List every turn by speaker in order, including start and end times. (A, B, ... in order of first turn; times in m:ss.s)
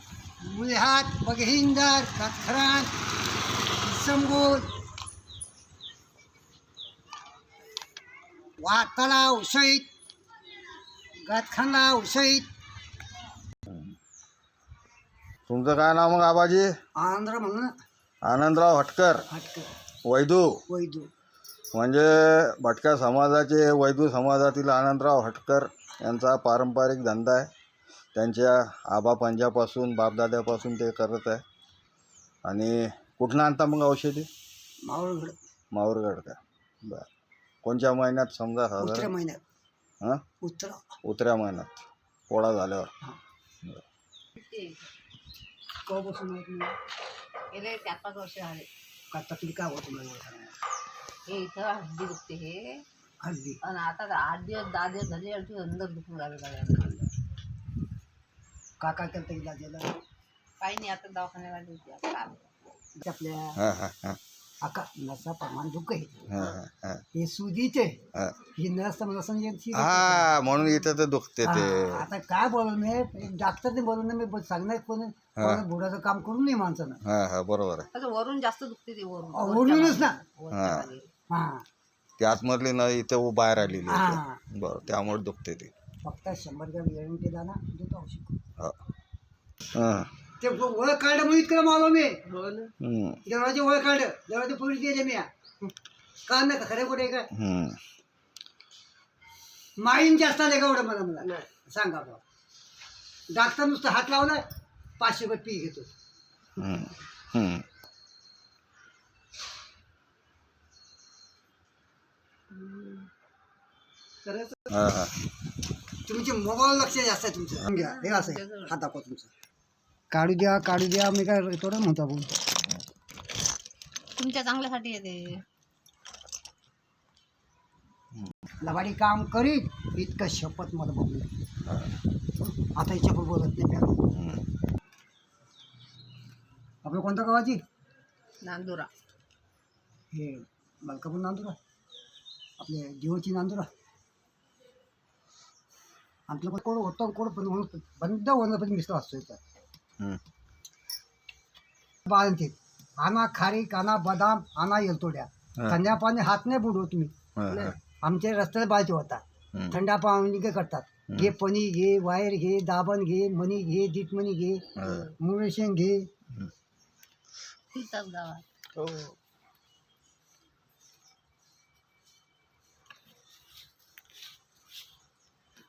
0:00.4-0:02.9 A
0:03.8-0:04.7 A
0:08.6-0:09.9 A
0:11.3-0:12.5 A
0:15.5-0:16.7 B
0:17.0-0:17.7 A
0:18.2-0:19.2 B
0:19.3-0:19.7 A
0:20.0-0:20.6 B
0:20.7-0:21.1 A
0:21.7-0:27.5 B
0:28.1-0:31.4 B
0:32.4-0:34.3 B
0:34.8-0:35.4 A
0:35.7-0:37.0 B
0:37.6-0:39.1 B
0:38.8-0:39.4 A
0:40.4-0:40.8 A
0:41.0-0:42.9 B
0:44.3-0:44.9 C
0:45.8-0:46.7 A
0:47.5-0:48.7 C
0:49.1-0:50.5 A
0:51.3-0:52.8 C
0:53.2-0:53.6 A
0:53.6-0:57.1 C
0:58.8-0:59.9 A
1:00.6-1:02.4 C
1:03.0-1:03.6 A
1:03.6-1:04.2 B
1:04.6-1:06.2 A
1:06.3-1:07.0 B
1:07.1-1:08.0 A
1:08.5-1:10.4 A
1:09.7-1:12.0 B
1:11.4-1:17.0 A
1:15.4-1:15.6 B
1:17.0-1:17.9 B
1:17.9-1:21.1 C
1:19.3-1:20.2 A
1:20.5-1:20.9 B
1:21.3-1:21.6 A
1:22.2-1:25.7 B
1:23.8-1:24.4 A
1:26.0-1:28.4 A
1:29.7-1:30.1 B
1:30.4-1:32.2 A
1:32.8-1:33.2 B
1:33.2-1:35.3 A
1:36.3-1:37.3 A
1:37.3-1:37.8 B
1:39.8-1:42.2 A
1:43.3-1:44.4 A
1:45.0-1:45.9 A
1:46.6-1:47.6 B
1:52.6-1:53.0 C
1:54.7-1:55.1 B
1:56.0-1:59.3 A
1:57.7-1:58.7 C
2:00.1-2:02.3 A
2:04.2-2:05.4 C
2:08.6-2:11.3 A
2:12.6-2:14.1 A
2:14.1-2:14.5 B
2:16.8-2:17.6 A
2:18.4-2:18.9 C
2:20.1-2:21.6 A
2:22.6-2:23.7 A
2:26.3-2:29.4 A
2:32.0-2:37.1 A
2:37.4-2:37.8 B
2:38.0-2:46.1 A
2:44.8-2:45.1 B
2:47.7-2:48.4 C
2:48.8-2:49.1 B